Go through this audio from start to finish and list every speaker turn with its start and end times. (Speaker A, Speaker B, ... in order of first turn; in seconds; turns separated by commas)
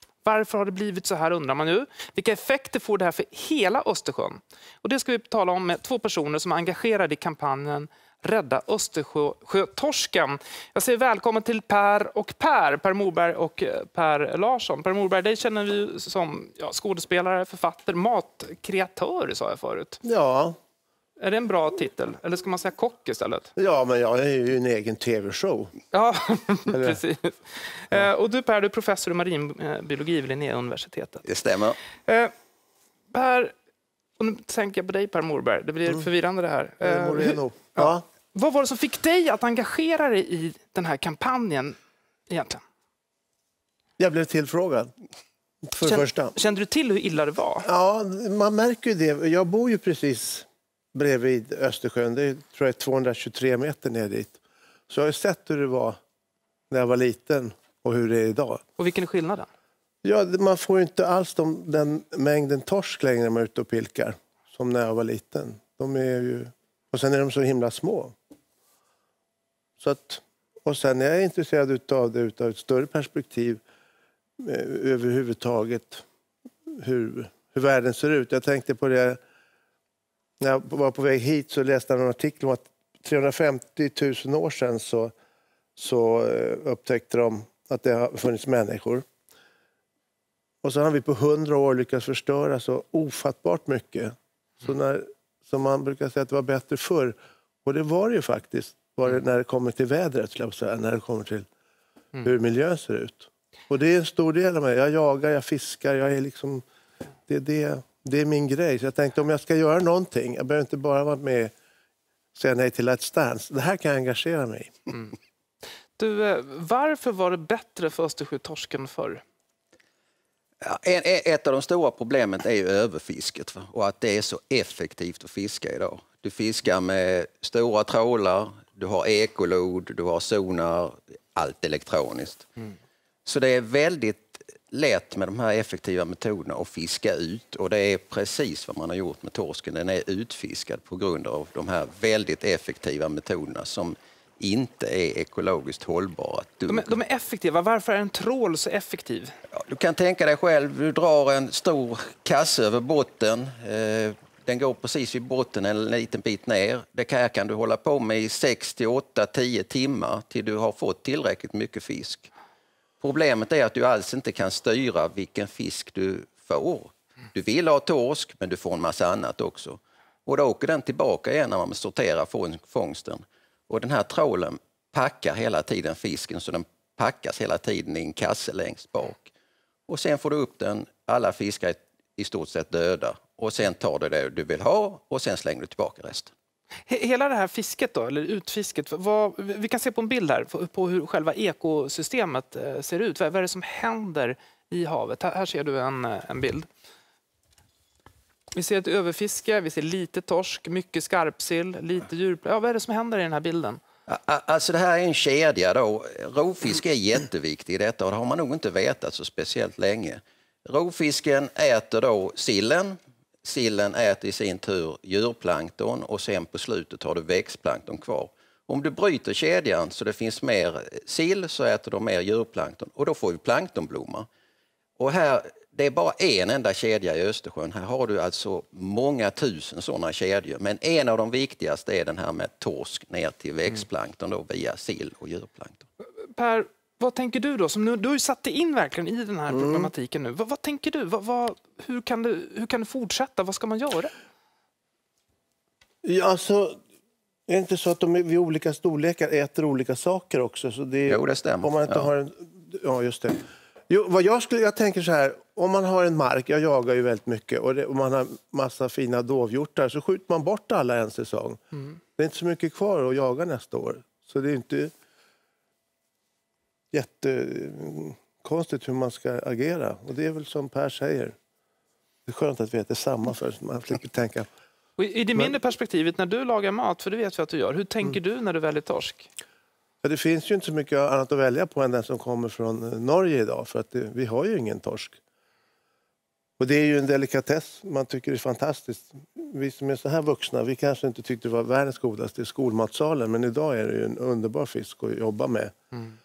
Speaker A: 0.2-20.0, Speaker B: 20.0-20.6, Speaker A: 21.2-23.5, Speaker B: 23.6-25.7, Speaker A: 25.9-31.3, Speaker B: 26.7-27.0, Speaker C: 31.2-31.8, Speaker A: 32.0-32.3, Speaker A: 33.1-33.5, Speaker A: 34.2-41.8, Speaker B: 36.8-38.0, Speaker A: 42.3-42.6, Speaker B: 44.0-44.9, Speaker B: 45.7-46.4, Speaker A: 45.8-47.7, Speaker B: 47.6-56.0, Speaker B: 56.7-58.6, Speaker A: 58.8-59.5, Speaker B: 60.0-68.1, Speaker B: 69.8-73.6, Speaker B: 74.4-76.0, Speaker B: 76.8-79.2, Speaker B: 80.4-85.1, Speaker B: 85.8-89.0, Speaker B: 90.6-101.5, Speaker B: 102.2-106.6, Speaker B: 107.3-111.5, Speaker B: 112.3-114.7, Speaker A: 116.0-119.2, Speaker C: 120.6-132.5, Speaker C: 133.3-147.0, Speaker A: 146.7-149.3, Speaker C: 149.5-162.3, Speaker C: 163.0-179.3, Speaker C: 179.9-186.3, Speaker A: 186.9-196.7, Speaker A: 198.5-203.8, Speaker C: 204.1-224.3, Speaker C: 225.0-235.9, Speaker A: 236.3-244.1, Speaker B: 239.5-239.9, Speaker B: 246.0-246.8, Speaker B: 247.5-261.6, Speaker C: 251.1-252.1, Speaker B: 262.2-264.9, Speaker B: 266.9-271.4, Speaker B: 272.3-274.5, Speaker A: 275.0-279.3, Speaker B: 280.0-285.2, Speaker B: 286.6-295.7